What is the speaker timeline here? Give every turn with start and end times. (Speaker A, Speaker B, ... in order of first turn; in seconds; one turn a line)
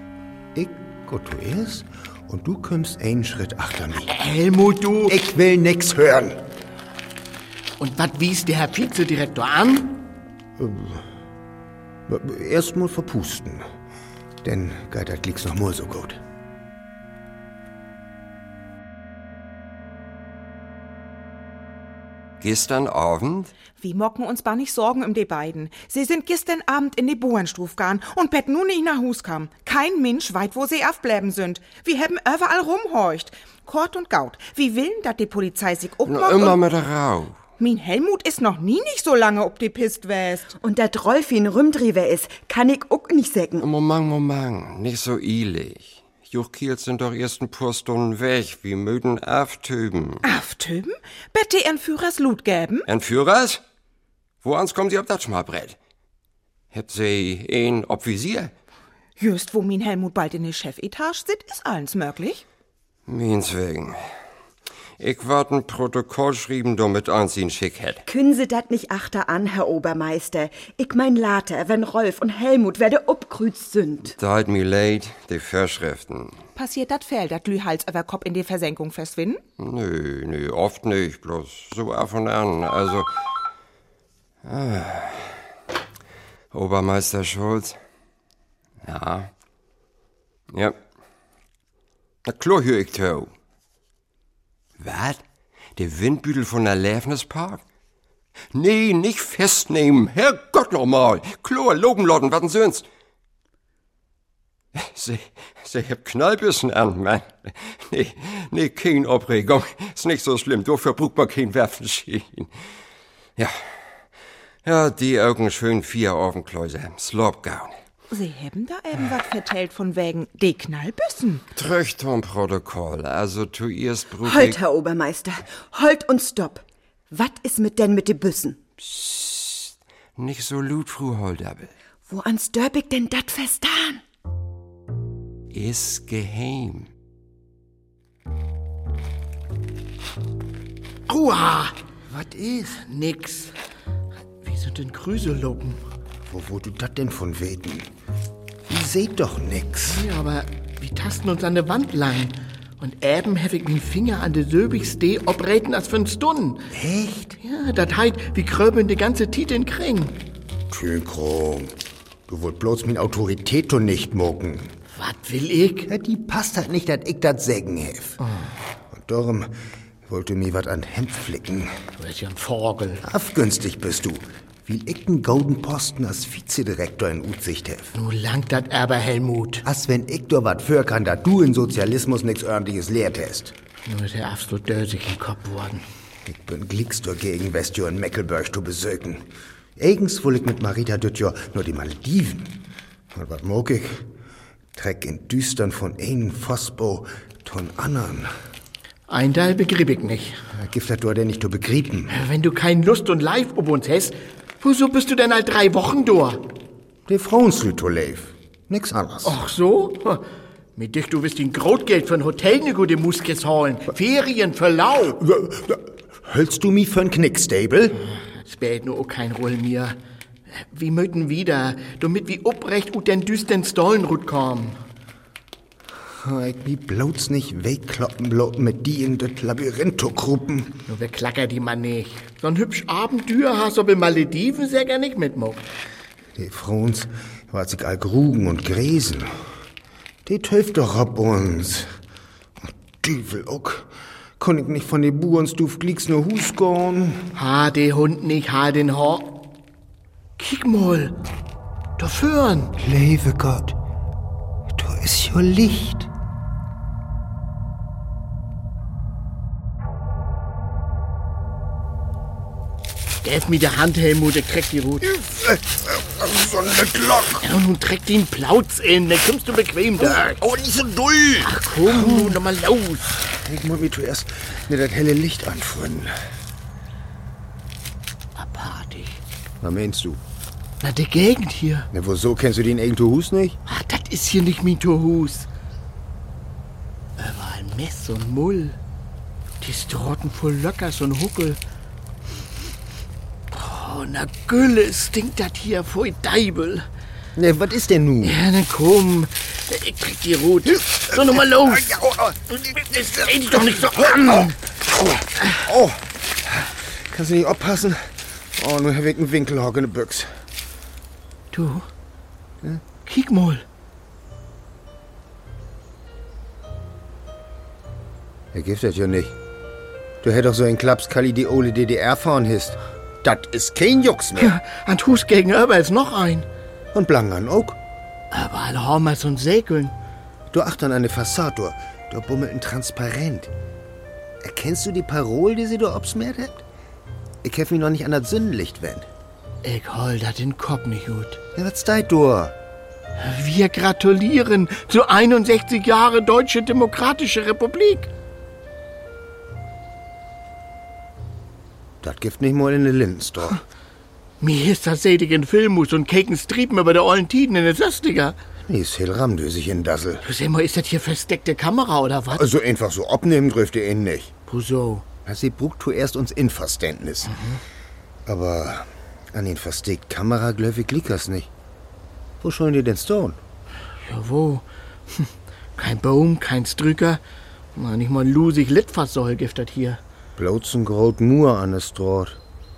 Speaker A: 0.5-4.1
Speaker B: 4.0-5.2
Speaker A: 5.1-6.4
Speaker B: 7.8-10.0
Speaker A: 10.6-11.0
Speaker A: 12.1-13.6
Speaker A: 14.4-16.2
Speaker C: 22.4-23.5
Speaker D: 23.8-36.6
Speaker C: 36.0-37.4
Speaker D: 37.6-40.5
Speaker E: 40.6-43.6
Speaker C: 43.6-50.2
Speaker D: 50.2-52.9
Speaker C: 52.9-53.6
Speaker C: 54.4-55.8
Speaker C: 56.7-58.5
Speaker D: 59.2-62.4
Speaker C: 63.1-64.0
Speaker C: 65.0-68.0
Speaker E: 68.0-74.2
Speaker C: 74.2-76.4
Speaker D: 76.5-79.4
Speaker C: 79.6-83.1
Speaker C: 84.4-85.4
Speaker C: 86.5-87.8
Speaker C: 88.8-89.3
Speaker C: 90.5-90.8
Speaker C: 92.2-93.3
Speaker C: 94.8-95.2
Speaker C: 95.8-97.6
Speaker C: 98.5-102.8
Speaker C: 104.7-112.5
Speaker C: 113.4-113.8
Speaker C: 114.6-117.7
Speaker D: 118.1-121.4
Speaker C: 121.5-124.6
Speaker E: 124.2-128.6
Speaker C: 128.8-131.7
Speaker E: 132.1-134.0
Speaker C: 135.5-136.9
Speaker B: 141.1-141.8
Speaker A: 142.1-142.8
Speaker B: 142.8-143.5
Speaker B: 144.4-145.8
Speaker A: 146.2-147.9
Speaker A: 148.7-150.0
Speaker B: 149.9-156.7
Speaker A: 156.7-157.4
Speaker B: 157.4-160.2
Speaker A: 160.7-161.7
Speaker A: 162.3-164.7
Speaker B: 164.9-165.9
Speaker A: 165.9-168.2
Speaker B: 168.2-168.5
Speaker A: 168.9-169.5
Speaker A: 170.1-171.7
Speaker B: 172.0-173.0
Speaker A: 173.0-177.9
Speaker B: 177.9-179.6
Speaker A: 179.6-183.5
Speaker B: 183.8-185.8
Speaker A: 186.2-194.1
Speaker A: 194.7-198.3
Speaker B: 199.1-200.4
Speaker A: 200.5-202.2
Speaker B: 202.1-206.4
Speaker A: 207.1-209.3
Speaker B: 209.2-210.2
Speaker B: 210.8-215.2
Speaker A: 215.2-218.0
Speaker B: 218.2-220.0
Speaker B: 220.5-224.8
Speaker A: 226.2-230.8
Speaker B: 230.9-235.7
Speaker A: 236.3-239.3
Speaker A: 240.2-241.9
Speaker A: 242.6-247.3
Speaker B: 247.3-249.5
Speaker B: 250.4-251.2
Speaker B: 252.0-252.8
Speaker A: 252.8-253.8
Speaker A: 254.7-256.1
Speaker B: 263.2-265.1
Speaker A: 265.0-267.4
Speaker B: 267.4-270.4
Speaker A: 270.0-272.4
Speaker B: 271.4-273.2
Speaker A: 273.1-276.2
Speaker B: 278.4-279.2
Speaker A: 279.6-280.2
Speaker B: 280.8-281.9
Speaker A: 281.9-283.6
Speaker B: 283.6-285.5
Speaker B: 287.2-288.8
Speaker B: 289.6-291.6
Speaker B: 293.5-296.9
Speaker A: 297.4-298.4
Speaker B: 298.2-301.9
Speaker A: 301.1-310.4
Speaker B: 303.0-304.6
Speaker B: 311.5-311.9
Speaker B: 313.0-313.6
Speaker A: 318.5-319.4
Speaker A: 320.2-324.6
Speaker B: 324.4-326.5
Speaker A: 326.9-327.8
Speaker B: 328.3-329.9
Speaker A: 330.5-333.5
Speaker A: 334.4-336.6
Speaker A: 337.4-339.1
Speaker B: 339.6-341.4
Speaker A: 341.5-342.6
Speaker B: 343.2-348.1
Speaker A: 352.0-353.6
Speaker B: 354.4-358.4
Speaker A: 358.7-360.2
Speaker B: 360.2-362.4
Speaker A: 362.3-364.3
Speaker B: 364.5-365.0
Speaker A: 365.2-367.4
Speaker B: 367.3-367.6
Speaker A: 368.2-371.5
Speaker A: 372.4-373.4
Speaker B: 374.0-377.2
Speaker B: 377.7-380.0
Speaker A: 380.4-382.4